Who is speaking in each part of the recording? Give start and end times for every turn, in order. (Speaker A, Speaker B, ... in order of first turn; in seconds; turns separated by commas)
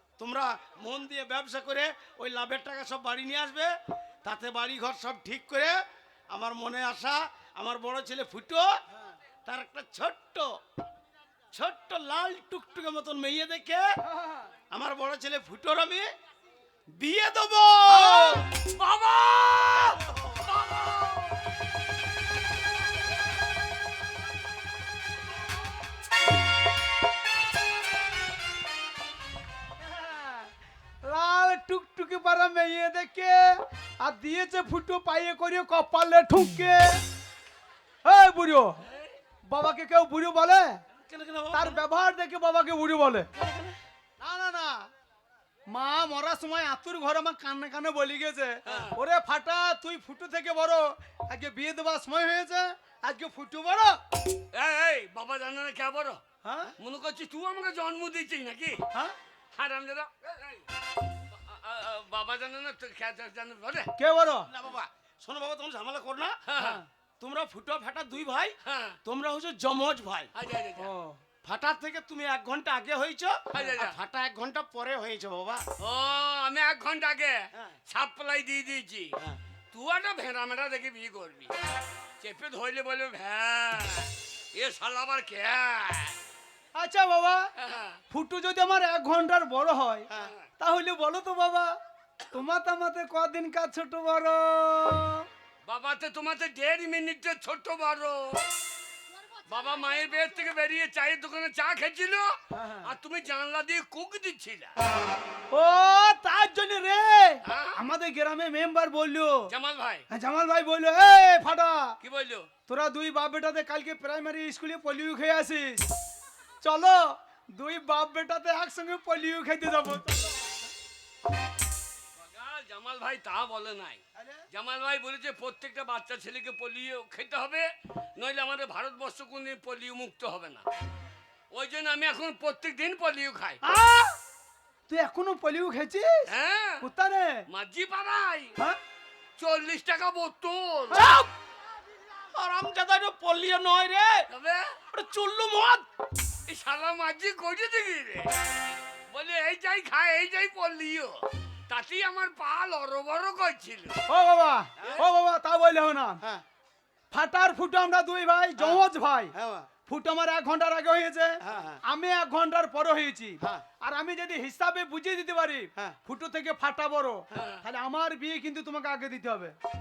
Speaker A: 0.2-3.7, Speaker A: 4.2-5.7, Speaker A: 6.3-8.7, Speaker A: 9.4-10.5, Speaker A: 11.5-13.8, Speaker B: 14.0-14.5, Speaker A: 14.7-16.1, Speaker A: 17.0-18.4, Speaker C: 17.9-21.4, Speaker B: 18.1-18.4, Speaker A: 19.7-20.4, Speaker B: 29.8-30.5, Speaker B: 31.0-37.0, Speaker B: 38.0-38.8, Speaker C: 38.9-39.1, Speaker B: 39.5-40.8, Speaker A: 41.0-41.8, Speaker B: 41.5-43.3, Speaker A: 43.4-43.7, Speaker B: 44.2-44.8, Speaker B: 45.7-54.0, Speaker C: 48.7-49.0, Speaker C: 54.5-56.2, Speaker B: 56.4-56.7, Speaker C: 56.8-58.9, Speaker C: 59.5-60.6, Speaker C: 61.3-63.9, Speaker B: 64.0-64.5, Speaker A: 64.5-66.3, Speaker C: 66.5-66.8, Speaker B: 66.6-66.9, Speaker A: 67.2-70.3, Speaker C: 68.6-69.0, Speaker C: 70.3-70.9, Speaker B: 70.8-71.2, Speaker A: 71.4-75.7, Speaker C: 73.5-74.0, Speaker C: 75.8-79.1, Speaker C: 79.7-81.5, Speaker C: 82.2-86.2, Speaker B: 86.8-87.4, Speaker C: 87.6-88.0, Speaker B: 88.1-91.7, Speaker C: 90.1-90.5, Speaker B: 92.3-95.2, Speaker C: 95.7-98.4, Speaker C: 99.5-104.7, Speaker B: 102.5-102.9, Speaker B: 105.5-109.5, Speaker C: 107.4-107.8, Speaker C: 109.5-110.0, Speaker B: 110.1-112.0, Speaker C: 112.0-112.5, Speaker B: 112.7-115.8, Speaker B: 116.6-120.5, Speaker C: 122.2-130.6, Speaker C: 131.5-133.6, Speaker B: 133.6-134.1, Speaker B: 134.9-136.3, Speaker C: 136.3-136.9, Speaker B: 136.8-137.4, Speaker C: 137.5-138.6, Speaker C: 139.4-141.2, Speaker B: 140.9-141.2, Speaker A: 142.3-144.3, Speaker C: 144.3-144.8, Speaker A: 144.9-145.8, Speaker C: 146.5-148.3, Speaker C: 149.1-154.0, Speaker B: 154.1-156.2, Speaker B: 157.1-159.3, Speaker A: 158.6-158.8, Speaker A: 159.3-159.7, Speaker B: 159.9-169.5, Speaker A: 161.4-161.8, Speaker C: 167.3-167.6